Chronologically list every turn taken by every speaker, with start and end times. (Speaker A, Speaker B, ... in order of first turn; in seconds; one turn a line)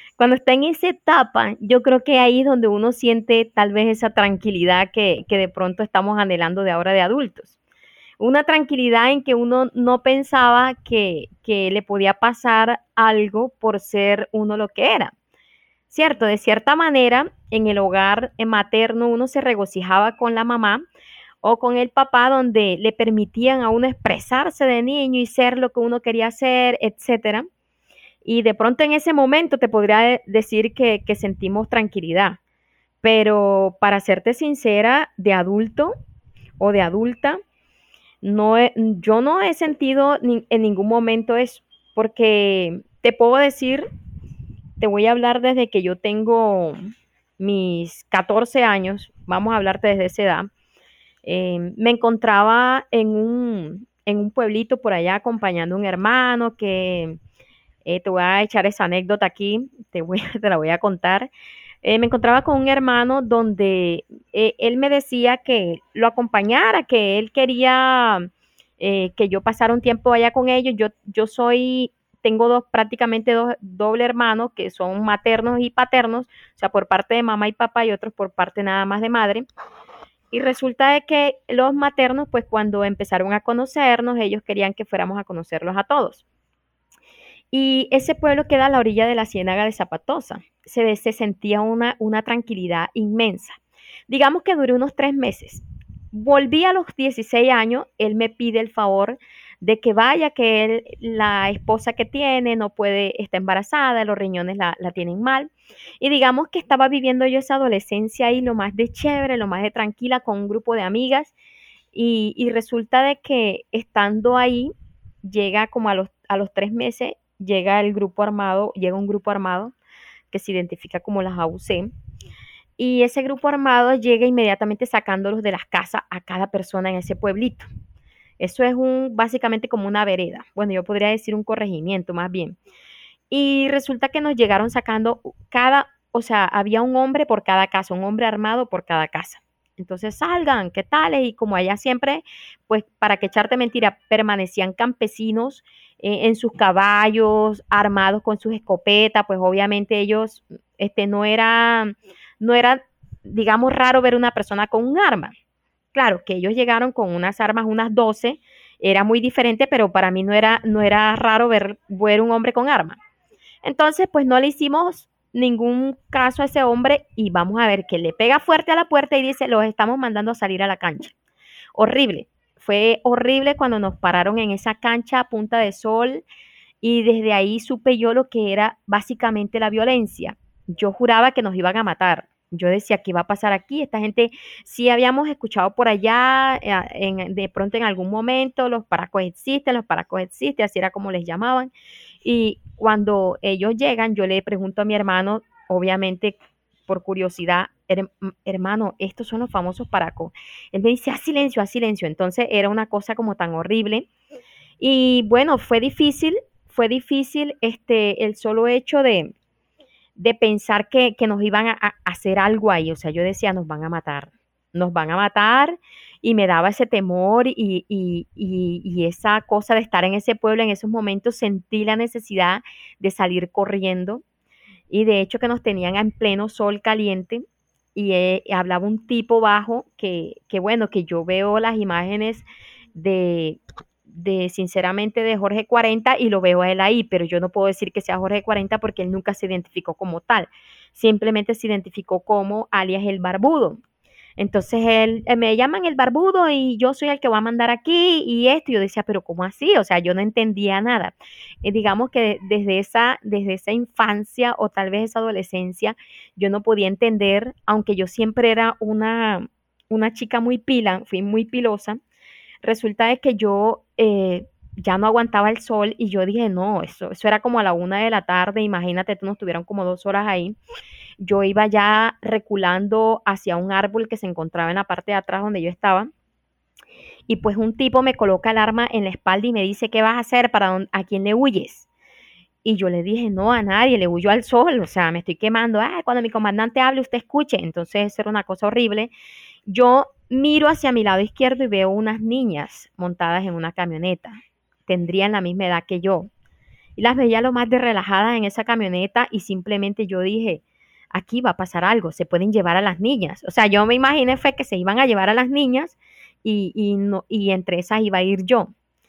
Speaker A: 0.2-7.5
Speaker A: 8.2-15.1
Speaker A: 15.9-20.8
Speaker A: 21.4-27.5
Speaker A: 28.2-32.4
Speaker A: 33.0-36.0
Speaker A: 36.6-37.4
Speaker A: 38.2-43.9
Speaker A: 44.8-46.8
Speaker A: 47.4-50.5
Speaker A: 51.2-57.2
Speaker A: 57.8-61.3
Speaker A: 61.8-68.3
Speaker A: 68.8-79.5
Speaker A: 80.3-86.2
Speaker A: 87.5-93.6
Speaker A: 94.1-105.5
Speaker A: 106.0-111.3
Speaker A: 111.9-114.7
Speaker A: 115.2-119.7
Speaker A: 120.3-121.9
Speaker A: 122.8-127.7
Speaker A: 128.4-132.6
Speaker A: 133.3-155.3
Speaker A: 155.9-163.0
Speaker A: 163.6-171.1
Speaker A: 171.8-176.2
Speaker A: 176.8-191.7
Speaker A: 192.2-204.1
Speaker A: 204.8-209.3
Speaker A: 210.2-224.2
Speaker A: 224.9-227.4
Speaker A: 227.9-243.8
Speaker A: 244.4-262.0
Speaker A: 262.6-270.6
Speaker A: 271.2-276.1
Speaker A: 277.3-281.9
Speaker A: 282.6-289.1
Speaker A: 289.7-296.3
Speaker A: 297.0-308.7